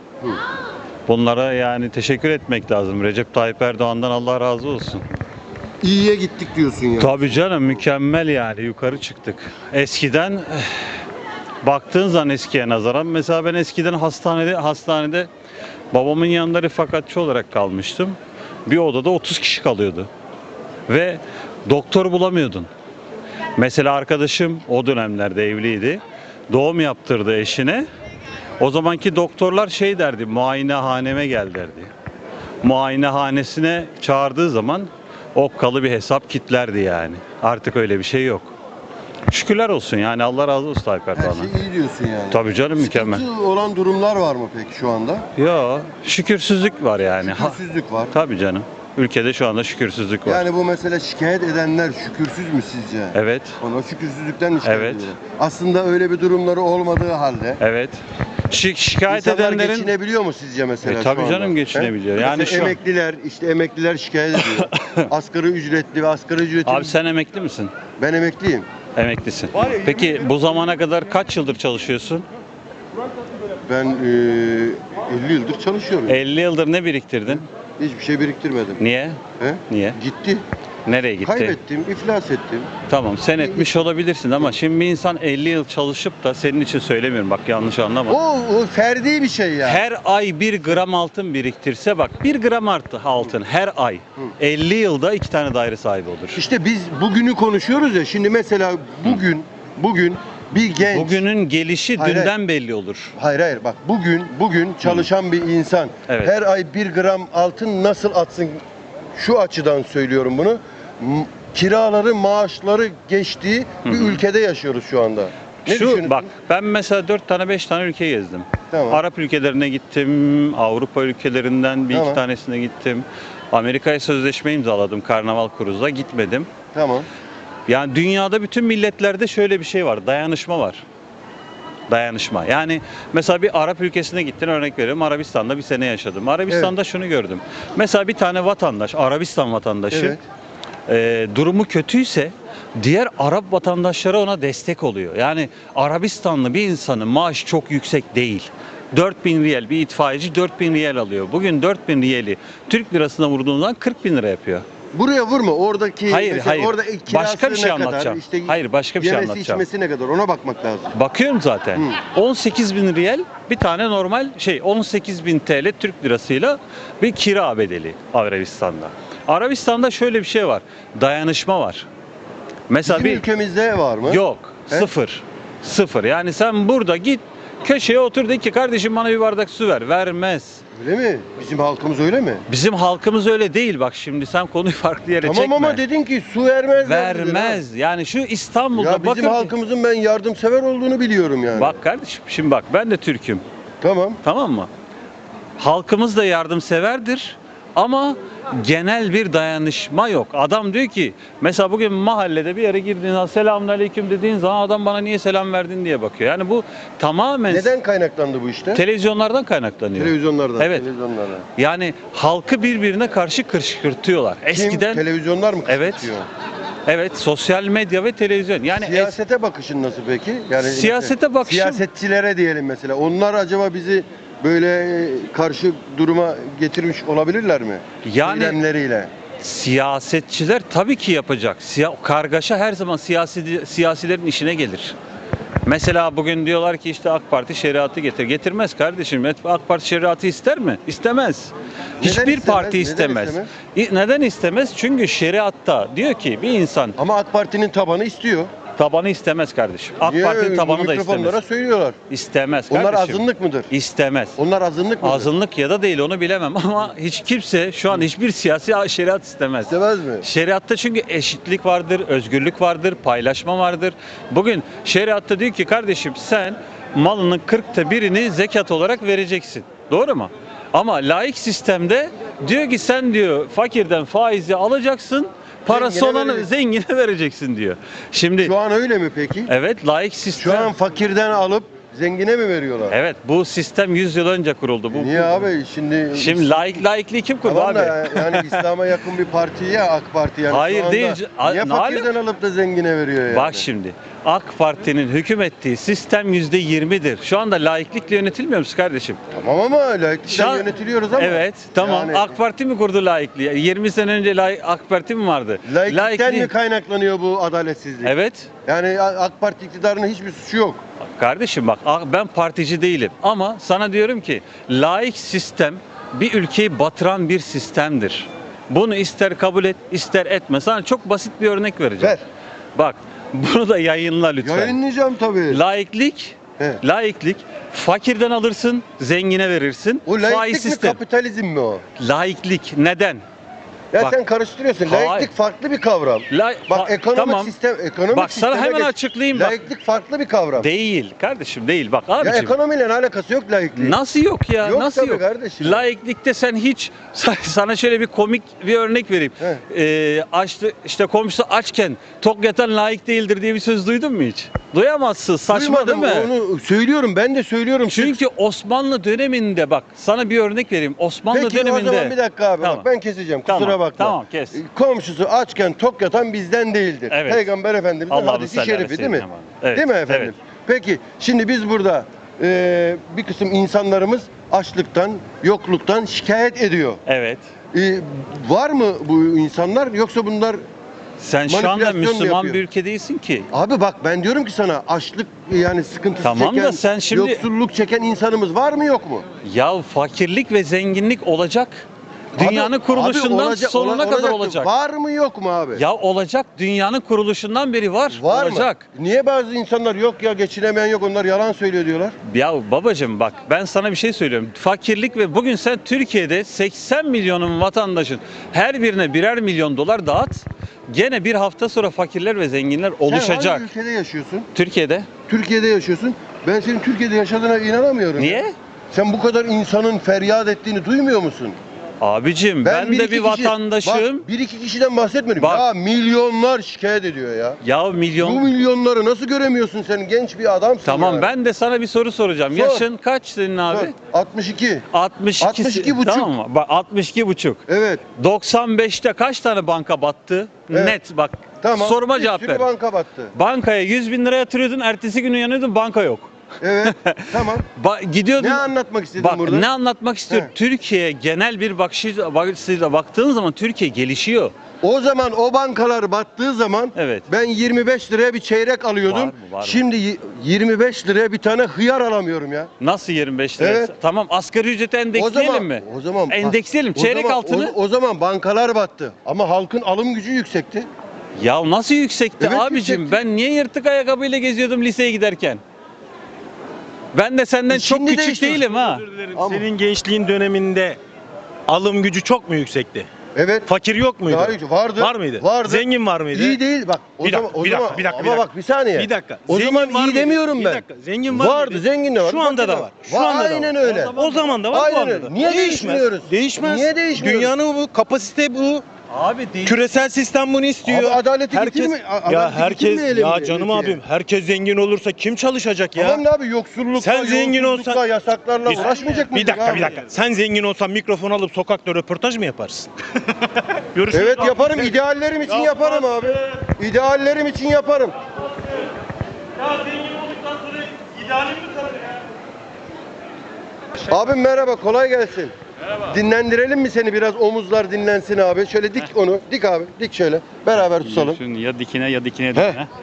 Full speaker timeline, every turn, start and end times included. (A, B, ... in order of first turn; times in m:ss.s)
0:01.1-0:05.0 A
0:05.8-0:07.2 B
0:07.0-0:10.9 A
0:11.6-0:15.3 A
0:15.9-0:20.1 A
0:20.9-0:22.7 A
0:23.6-0:27.8 A
0:28.6-0:31.9 A
0:32.6-0:38.5 A
0:39.3-0:41.5 A
0:41.1-0:45.2 B
0:42.3-0:43.2 A
0:45.4-0:47.6 A
0:47.2-0:48.1 B
0:48.1-0:50.4 A
0:50.2-0:57.6 B
0:53.1-0:53.6 A
0:54.6-0:55.1 A
0:57.6-0:59.9 A
0:59.1-1:06.9 B
1:00.8-1:02.8 A
1:04.4-1:05.0 A
1:06.6-1:07.7 A
1:08.0-1:08.7 B
1:09.0-1:12.2 A
1:13.7-1:16.2 B
1:16.1-1:17.4 A
1:17.3-1:18.8 B
1:18.8-1:20.0 A
1:19.4-1:20.4 B
1:20.8-1:21.6 A
1:21.2-1:22.7 B
1:22.9-1:28.2 A
1:23.4-1:23.8 B
1:28.1-1:29.8 B
1:29.6-1:36.4 A
1:36.3-1:41.2 B
1:40.8-1:43.1 A
1:42.0-1:42.3 B
1:43.1-1:48.6 B
1:46.1-1:46.3 A
1:49.2-1:56.2 B
1:53.8-1:54.2 A
1:55.6-2:06.5 A
1:58.7-1:59.0 B
2:01.9-2:02.2 B
2:06.7-2:07.1 B
2:07.7-2:10.8 A
2:11.9-2:20.2 A
2:19.9-2:20.2 B
2:20.9-2:34.6 A
2:34.9-2:40.9 B
2:36.1-2:39.6 A
2:40.9-2:51.9 A
2:52.7-2:53.2 A
2:52.8-2:54.9 B
2:54.0-3:00.6 A
3:00.8-3:02.4 B
3:02.5-3:05.8 A
3:05.2-3:07.6 B
3:06.8-3:09.5 A
3:08.8-3:11.7 B
3:11.5-3:13.4 A
3:13.8-3:14.2 B
3:14.2-3:14.7 A
3:15.6-3:27.7 A
3:27.5-3:28.8 B
3:28.7-3:30.8 A
3:30.0-3:31.4 B
3:31.6-3:35.0 A
3:34.5-3:36.2 B
3:35.7-3:36.1 A
3:36.8-3:39.2 A
3:38.7-3:49.1 B
3:40.6-3:41.8 A
3:48.0-3:48.6 A
3:49.4-3:54.9 A
3:55.6-4:07.0 A
4:02.0-4:03.5 B
4:07.0-4:08.5 B
4:08.8-4:11.4 A
4:10.0-4:12.0 B
4:12.1-4:14.4 A
4:12.7-4:13.7 B
4:14.4-4:15.3 B
4:15.0-4:38.5 A
4:19.6-4:20.3 B
4:35.7-4:36.4 B
4:38.4-4:39.5 B
4:39.5-4:40.7 A
4:40.4-4:43.0 B
4:42.9-4:45.5 A
4:44.9-4:46.8 B
4:46.1-4:48.6 A
4:47.4-4:53.6 B
4:50.5-4:52.1 A
4:53.3-4:59.2 A
4:59.3-5:02.3 B
5:00.3-5:06.5 A
5:05.6-5:08.1 B
5:08.0-5:08.5 A
5:08.6-5:10.8 B
5:11.2-5:22.2 A
5:22.8-5:24.8 A
5:24.4-5:25.6 B
5:25.5-5:31.0 A
5:30.0-5:31.8 B
5:32.0-5:33.2 A
5:33.9-5:40.7 B
5:34.9-5:35.3 A
5:36.3-5:37.5 A
5:38.1-5:39.6 A
5:40.6-5:42.5 A
5:42.2-5:44.0 B
5:43.8-5:56.3 A
5:44.6-5:45.8 B
5:55.5-5:58.2 B
5:57.9-6:02.8 A
6:01.3-6:17.0 B
6:03.5-6:04.6 A
6:07.1-6:07.4 A
6:08.1-6:10.3 A
6:17.1-6:17.4 A
6:17.7-6:20.6 B
6:21.2-6:23.5 A
6:21.5-6:22.6 B
6:23.5-6:29.2 B
6:26.2-6:27.4 A
6:29.4-6:31.8 A
6:32.4-6:35.8 B
6:32.4-6:34.7 A
6:35.8-6:38.8 A
6:38.1-6:42.1 B
6:42.3-6:53.7 A
6:53.1-6:54.5 B
6:54.5-6:55.1 A
6:55.3-7:01.6 B
6:58.2-6:58.5 A
7:02.0-7:04.2 A
7:02.6-7:07.6 B
7:05.4-7:05.6 A
7:07.6-7:08.5 A
7:08.2-7:11.3 B
7:10.8-7:13.9 A
7:12.5-7:12.8 B
7:13.7-7:14.8 B
7:14.9-7:17.6 A
7:15.4-7:16.3 B
7:17.7-7:18.0 B
7:18.2-7:22.7 A
7:20.7-7:21.0 B
7:21.6-7:23.3 B
7:23.3-7:26.3 A
7:26.6-7:27.6 B
7:26.8-7:34.5 A
7:28.4-7:29.6 B
7:34.8-7:42.7 B
7:37.0-7:37.3 A
7:39.0-7:39.8 A
7:42.8-7:47.7 A
7:43.6-7:43.9 B
7:45.2-7:50.9 B
7:51.4-7:55.6 A
7:52.4-7:53.2 B
7:57.1-7:59.0 A
7:57.7-7:58.6 B
7:58.9-8:01.0 C
7:59.4-7:59.7 B
8:01.7-8:03.1 C
8:03.3-8:03.7 B
8:03.7-8:06.6 C
8:04.2-8:14.1 B
8:07.2-8:18.8 C
8:13.8-8:14.3 A
8:14.7-8:17.5 B
8:19.1-8:19.8 A
8:19.6-8:26.2 C
8:20.8-8:24.0 B
8:26.0-8:30.0 B
8:27.0-8:28.0 C
8:28.6-8:32.9 C
8:33.9-8:34.9 C
8:34.1-8:38.1 B
8:35.5-8:36.1 C
8:39.8-8:40.4 A
8:44.1-8:45.5 B
8:46.1-8:51.4 B
8:50.7-8:52.9 D
8:52.5-8:52.8 B